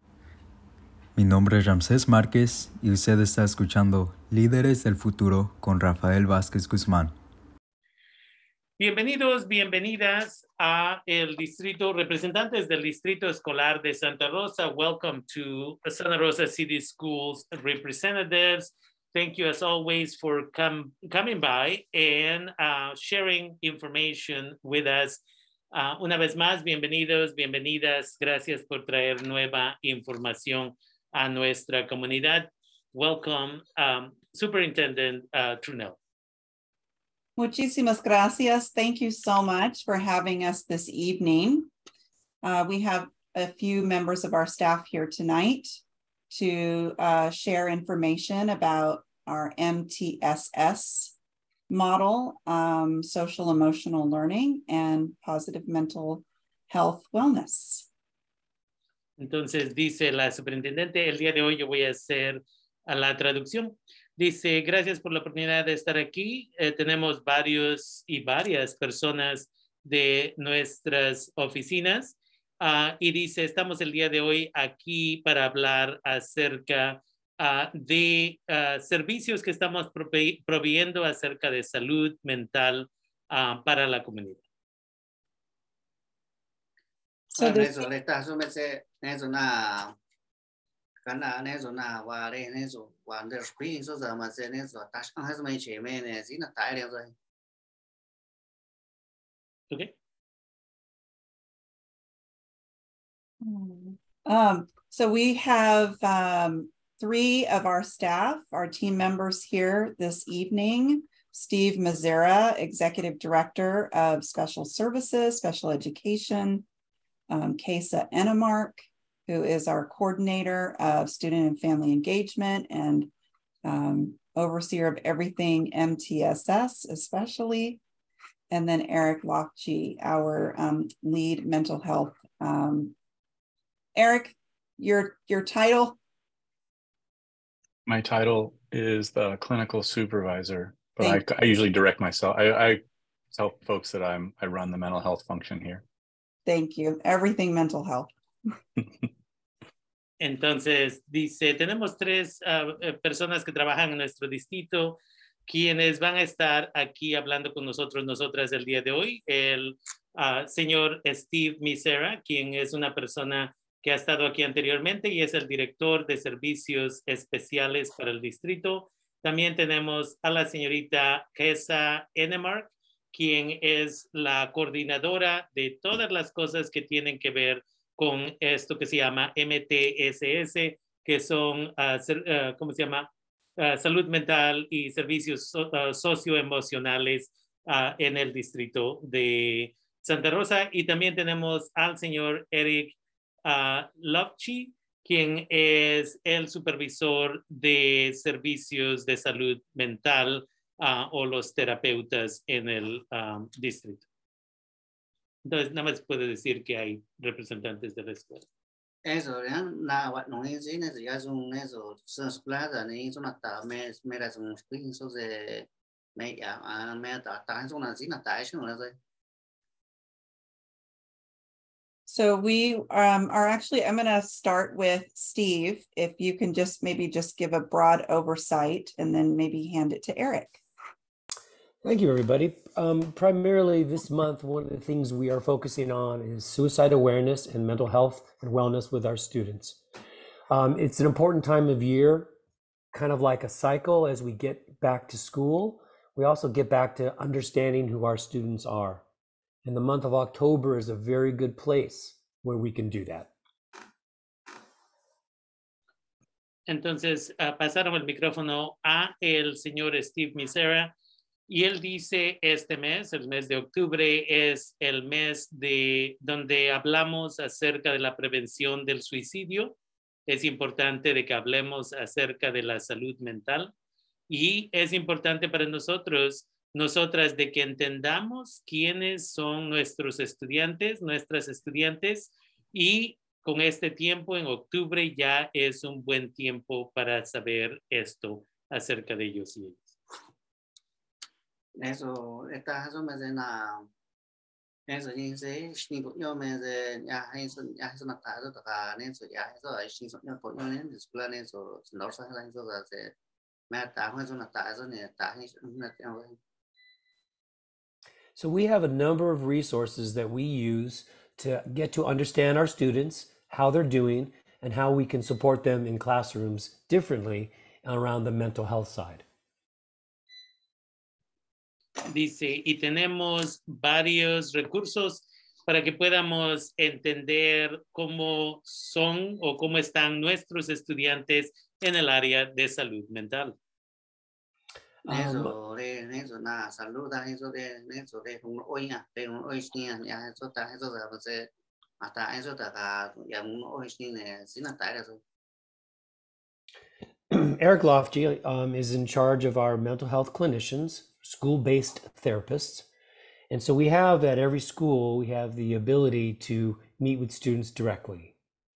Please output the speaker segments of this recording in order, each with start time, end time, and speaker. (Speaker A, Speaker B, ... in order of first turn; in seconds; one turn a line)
Speaker A: 1.2-7.2
Speaker B: 8.8-25.2
Speaker B: 25.7-36.0
Speaker C: 37.4-41.7
Speaker C: 42.4-45.8
Speaker C: 46.3-51.1
Speaker C: 51.7-57.9
Speaker B: 59.2-84.4
Speaker C: 87.3-87.8
Speaker D: 87.3-90.0
Speaker D: 91.1-97.1
Speaker C: 103.4-116.7
Speaker C: 117.3-123.1
Speaker C: 123.7-127.8
Speaker C: 128.5-132.9
Speaker C: 133.9-136.0
Speaker E: 137.9-142.8
Speaker E: 143.3-145.8
Speaker C: 146.5-148.1
Speaker B: 150.2-183.1
Speaker B: 183.6-204.1
Speaker B: 205.4-208.4
Speaker D: 209.1-218.9
Speaker C: 222.1-230.6
Speaker F: 231.8-239.8
Speaker F: 240.5-242.3
Speaker F: 242.9-249.0
Speaker F: 249.6-253.3
Speaker B: 256.7-260.9
Speaker B: 261.5-269.8
Speaker B: 270.3-273.7
Speaker B: 274.3-289.9
Speaker D: 291.8-293.9
Speaker D: 294.9-303.1
Speaker D: 303.7-306.4
Speaker F: 308.4-319.2
Speaker B: 322.1-333.6
Speaker D: 335.1-341.5
Speaker F: 335.1-335.5
Speaker D: 342.0-345.2
Speaker F: 347.3-352.9
Speaker F: 353.5-358.3